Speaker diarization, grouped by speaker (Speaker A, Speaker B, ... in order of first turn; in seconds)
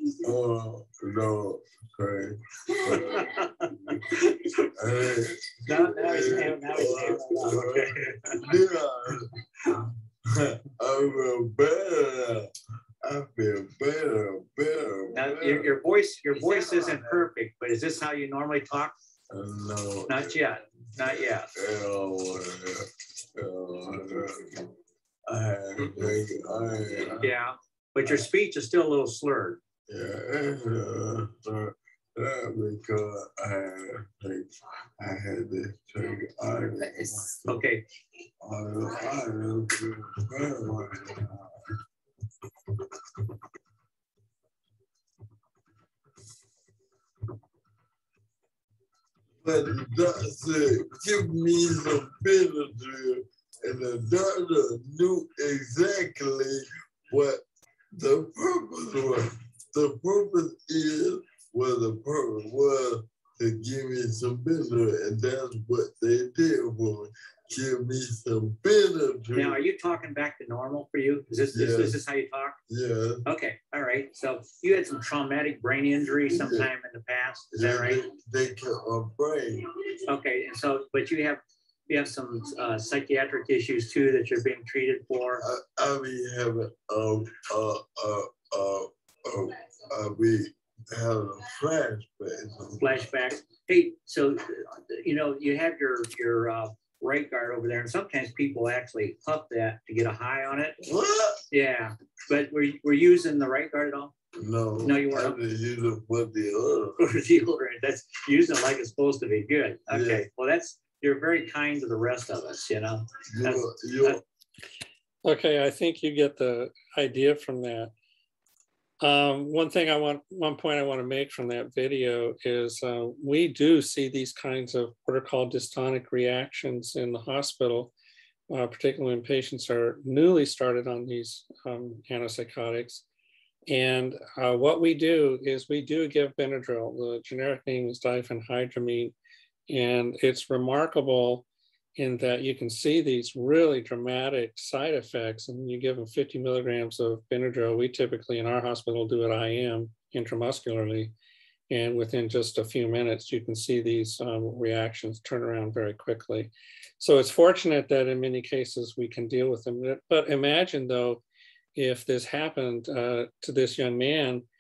Speaker A: 0.1-15.8, 16.4-17.2, 19.3-24.7, 25.3-27.4, 28.0-28.3, 29.9-37.6, 38.4-41.6, 49.4-69.6, 71.3-72.0, 72.7-73.2, 76.3-76.7, 77.5-79.7, 85.4-93.5, 100.8-101.4, 104.4-107.0, 109.9-110.3, 113.3-114.2
Speaker B: 2.9-3.7, 5.6-8.5, 15.1-18.9, 20.1-21.5, 25.8-26.1, 27.0-29.6, 37.1-37.8, 69.3-72.6, 73.3-78.0, 80.1-85.4, 92.8-100.8, 101.5-104.1, 104.8-105.4, 107.0-114.1
Speaker C: 115.2-117.9, 119.0-127.9, 128.5-133.1, 133.7-139.1, 139.7-141.4, 142.0-151.1, 151.7-161.2, 161.7-164.4